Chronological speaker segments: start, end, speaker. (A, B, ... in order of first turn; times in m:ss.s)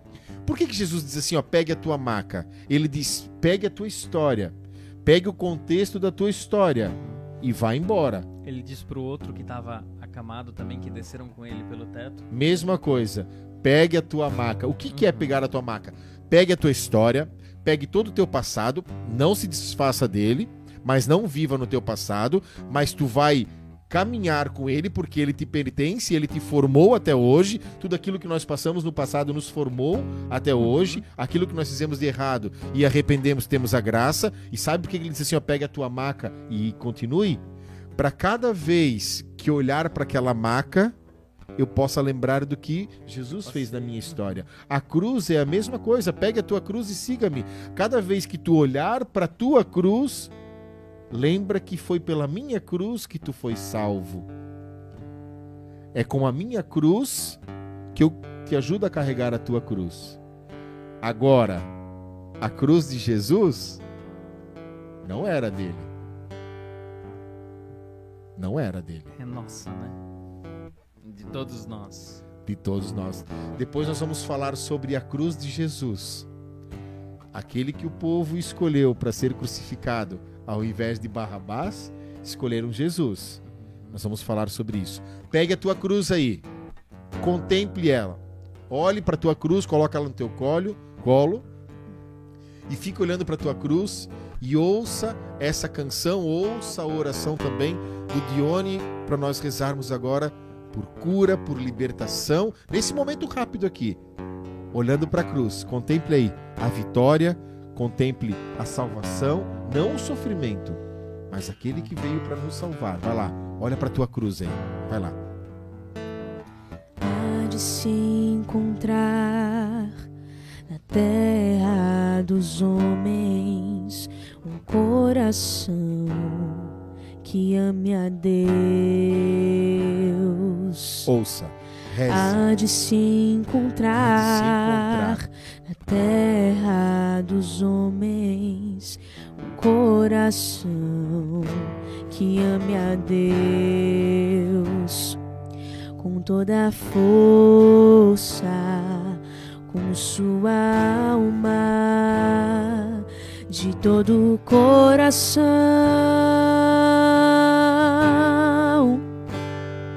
0:00.4-0:08.3 A
0:08.4-0:12.3 B
0:12.3-0:37.4 A
0:14.9-0:15.4 B
0:30.6-0:31.0 B
0:38.0-0:41.0 A
0:41.6-0:50.3 A
0:43.4-0:44.5 B
0:51.1-0:54.3 A
0:55.9-0:57.4 A
0:57.9-1:00.2 A
1:01.0-1:01.7 A
1:02.4-1:03.8 A
1:05.0-1:05.9 A
1:08.4-1:09.1 A
1:09.2-1:10.0 B
1:11.0-1:12.2 B
1:12.5-1:16.3 A
1:17.3-1:23.4 A
1:23.5-1:24.0 B
1:23.9-1:26.5 A
1:27.2-1:31.5 A
1:32.7-1:44.0 A
1:44.7-1:55.2 A
1:57.0-2:00.0 C
2:00.7-2:06.7 C
2:07.2-2:11.1 C
2:11.1-2:12.4 A
2:12.1-2:25.2 C
2:14.0-2:15.2 A
2:26.0-2:39.0 C